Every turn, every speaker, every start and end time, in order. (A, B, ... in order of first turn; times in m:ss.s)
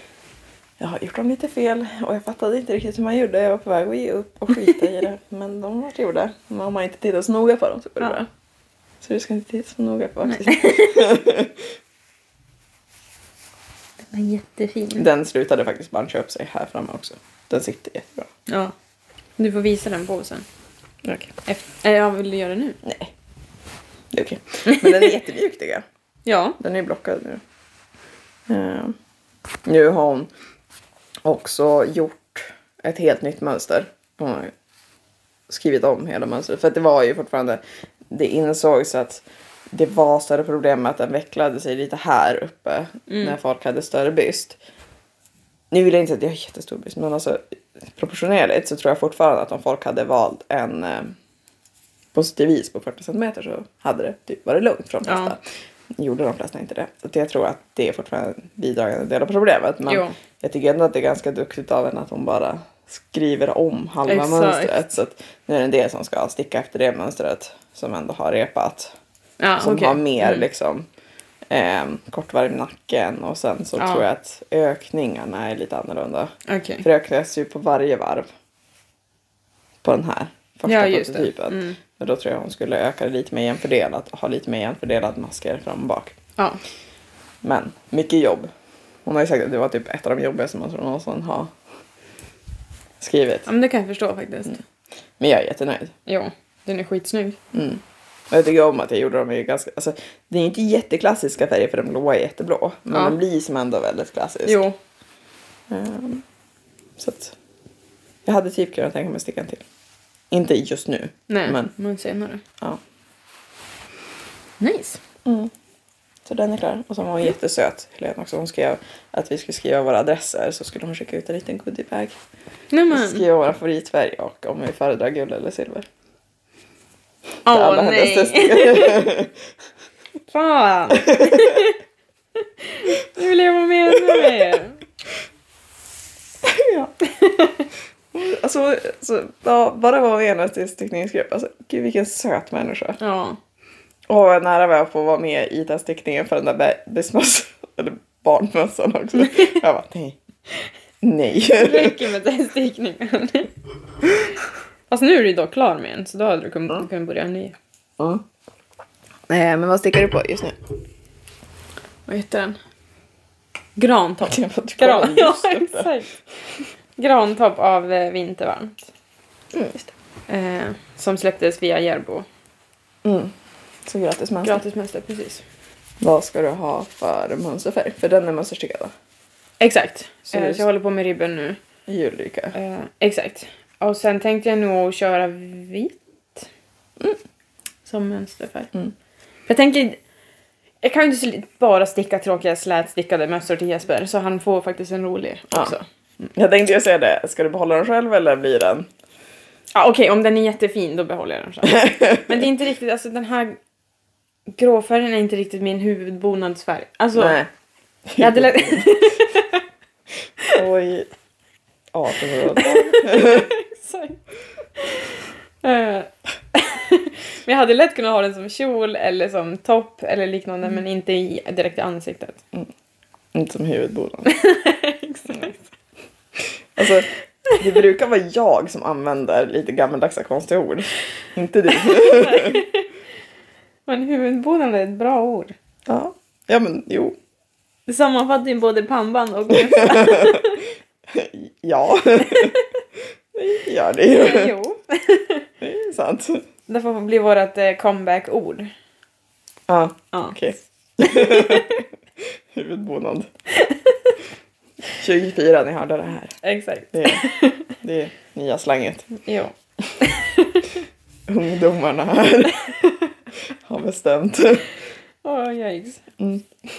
0:00.8-0:08.2 A
0:08.0-0:08.3 B
0:09.0-0:11.6 A
0:10.2-0:11.2 B
0:14.0-0:15.0 B
0:14.9-0:18.3 A
0:18.5-0:18.7 B
0:19.4-0:20.4 B
0:21.0-0:21.3 A
0:21.4-0:22.8 B
0:22.8-0:23.1 A
0:24.1-0:25.8 A
0:24.7-0:25.1 B
0:26.2-0:26.6 B
0:26.6-0:27.4 A
0:28.5-0:28.9 A
0:29.6-0:30.3 A
0:31.2-0:34.5 A
0:35.5-0:44.6 A
0:43.1-0:43.3 B
0:45.7-0:47.4 A
0:47.9-0:51.1 A
0:52.1-1:08.9 A
0:55.0-0:55.4 B
0:59.9-1:00.1 B
1:04.0-1:04.8 B
1:09.4-1:10.4 B
1:09.6-1:10.9 A
1:11.5-1:18.3 A
1:13.8-1:14.0 B
1:16.4-1:16.8 B
1:19.8-1:26.1 A
1:20.6-1:21.8 B
1:27.4-1:28.5 A
1:29.0-1:31.5 A
1:33.0-1:33.5 A
1:33.4-1:34.6 B
1:35.2-1:35.9 A
1:36.0-1:37.4 B
1:37.5-1:44.6 A
1:42.9-1:43.2 B
1:44.4-1:44.8 B
1:45.7-1:46.2 A
1:47.0-1:47.3 A
1:48.2-1:49.6 A
1:50.3-1:51.7 A
1:51.3-1:52.4 B
1:54.6-1:55.0 B
1:55.2-1:55.5 A
1:56.2-2:02.2 A
2:02.7-2:03.2 B
2:02.9-2:05.8 A
2:07.4-2:09.1 B
2:07.4-2:09.3 A
2:10.3-2:11.7 B
2:10.9-2:11.7 A
2:12.6-2:14.8 B
2:16.4-2:16.9 A
2:17.0-2:17.7 B
2:18.1-2:23.0 A
2:23.0-2:23.4 B
2:24.1-2:30.2 A
2:29.2-2:29.5 B
2:31.0-2:32.0 A
2:31.6-2:33.5 B
2:34.9-2:37.6 B
2:39.3-2:40.6 A
2:42.0-2:42.6 B
2:43.8-2:46.1 B
2:44.3-2:45.9 A
2:47.0-2:48.9 B
2:49.5-2:49.9 A
2:50.3-2:52.2 B
2:53.0-2:53.3 A
2:53.8-2:54.6 A
2:54.4-2:55.4 B
2:56.0-2:58.9 A
2:59.6-3:01.6 B
3:00.3-3:00.6 A
3:01.9-3:02.5 A
3:02.5-3:06.5 B
3:07.8-3:08.7 B
3:09.5-3:10.0 B
3:10.8-3:15.8 B
3:15.5-3:18.9 A
3:19.7-3:23.6 B
3:21.7-3:22.3 A
3:24.5-3:27.4 B
3:27.2-3:27.5 A
3:28.1-3:29.1 A
3:28.2-3:29.6 B
3:30.5-3:31.1 A
3:31.9-3:33.5 A
3:32.6-3:34.2 B
3:34.8-3:42.4 B
3:43.3-3:44.4 A
3:44.3-3:45.6 B
3:46.7-3:52.6 A
3:51.8-3:52.9 B
3:53.9-3:55.5 B
3:55.9-3:57.2 A
3:57.9-4:00.6 B
3:59.6-4:00.5 A
4:01.1-4:02.6 A
4:03.3-4:04.5 A
4:04.1-4:05.4 B
4:05.6-4:06.4 A
4:06.7-4:08.7 B
4:09.7-4:11.8 A
4:11.0-4:11.8 B
4:12.5-4:13.3 A
4:13.6-4:13.9 B
4:14.9-4:16.4 A
4:16.4-4:17.7 B
4:16.9-4:19.2 A
4:19.2-4:20.8 B
4:21.3-4:22.7 A
4:22.6-4:22.9 B
4:23.6-4:24.7 A
4:25.2-4:26.0 B
4:26.2-4:26.5 A